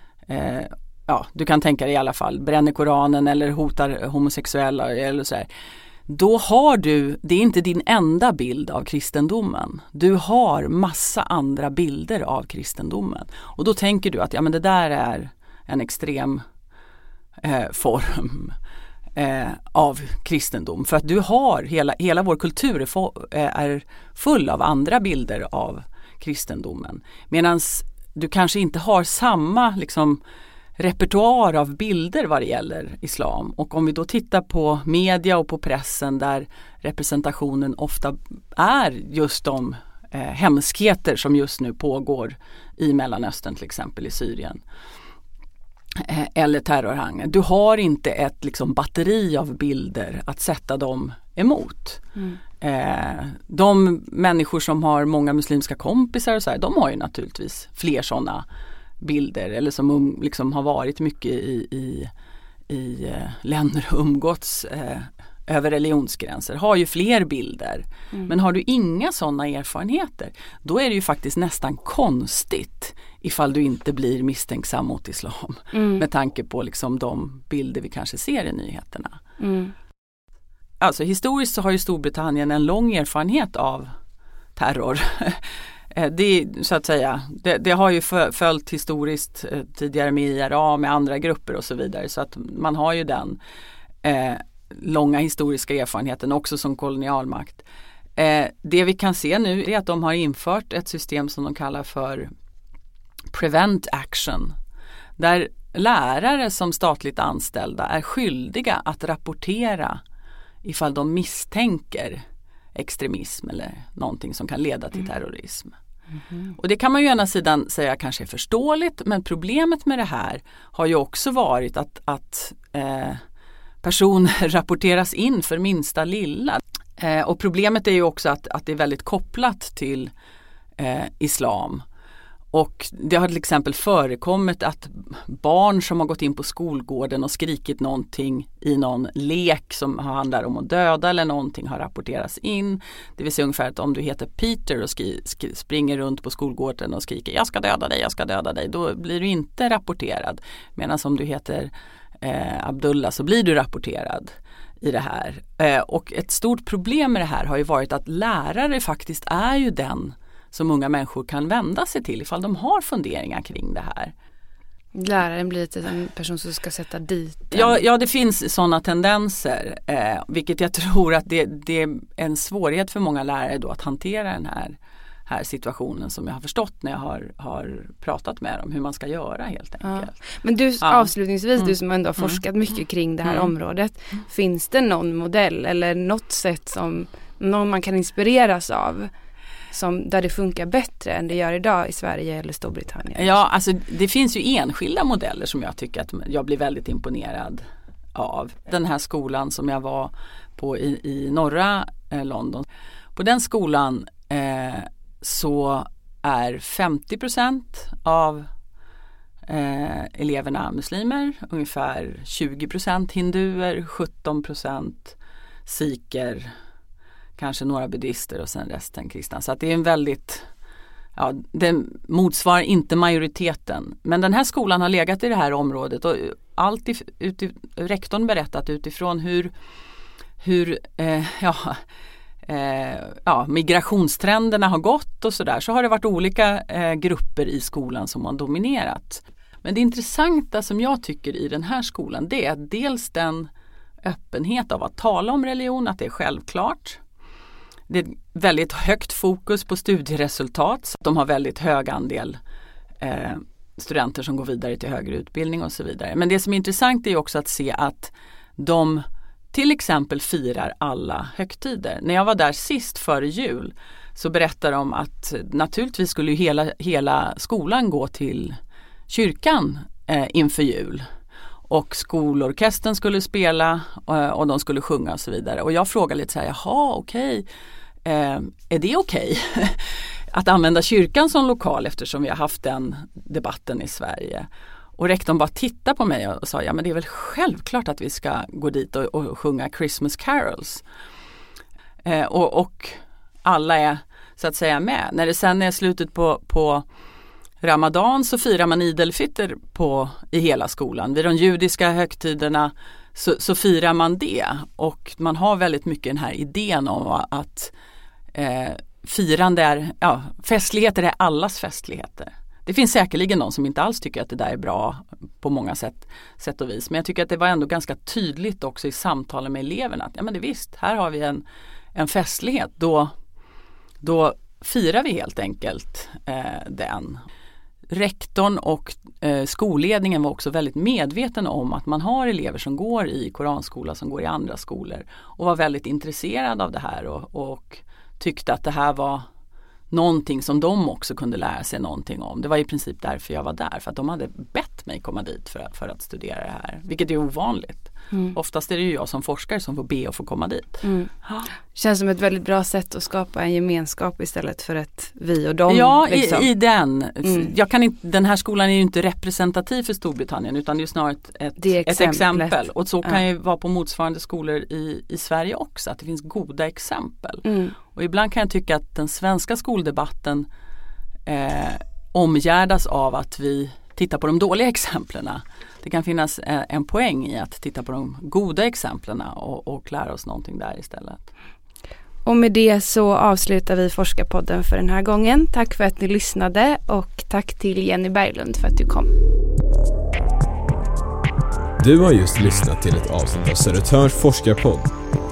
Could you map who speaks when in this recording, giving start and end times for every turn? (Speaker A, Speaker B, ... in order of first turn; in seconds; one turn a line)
Speaker A: 0.3-5.5
Speaker A: 6.1-16.4
Speaker A: 17.4-18.6
Speaker A: 19.1-30.2
Speaker A: 30.8-44.6
Speaker A: 46.0-52.0
Speaker A: 52.6-58.4
Speaker A: 59.0-62.1
Speaker A: 62.7-79.2
Speaker B: 75.7-76.0
Speaker B: 79.4-79.7
Speaker A: 80.8-83.9
Speaker A: 84.5-93.4
Speaker A: 94.0-97.6
Speaker A: 98.2-102.3
Speaker A: 103.3-104.5
Speaker A: 105.2-110.0
Speaker A: 110.6-112.2
Speaker A: 112.7-115.7
Speaker A: 116.5-123.2
Speaker A: 123.8-130.1
Speaker A: 130.8-131.8
Speaker A: 132.5-164.1
Speaker B: 164.9-167.8
Speaker A: 167.5-180.2
Speaker B: 179.8-189.1
Speaker A: 180.8-181.1
Speaker B: 189.7-193.4
Speaker A: 193.2-197.6
Speaker A: 198.1-208.5
Speaker A: 209.5-216.5
Speaker A: 217.4-220.4
Speaker A: 221.1-229.5
Speaker A: 230.4-231.8
Speaker A: 232.4-243.5
Speaker A: 244.0-247.0
Speaker A: 247.9-252.4
Speaker A: 253.0-268.6
Speaker A: 269.1-271.0
Speaker A: 271.7-277.4
Speaker A: 278.0-284.4
Speaker A: 285.0-290.8
Speaker A: 292.0-296.9
Speaker A: 297.6-307.7
Speaker A: 308.3-323.1
Speaker A: 324.0-327.2
Speaker A: 327.9-339.2
Speaker A: 339.9-351.5
Speaker B: 348.1-348.4
Speaker B: 350.8-351.1
Speaker B: 351.7-356.5
Speaker A: 355.7-370.5
Speaker B: 361.6-362.6
Speaker B: 367.4-367.7
Speaker A: 371.2-381.2
Speaker B: 382.2-389.1
Speaker C: 391.8-394.9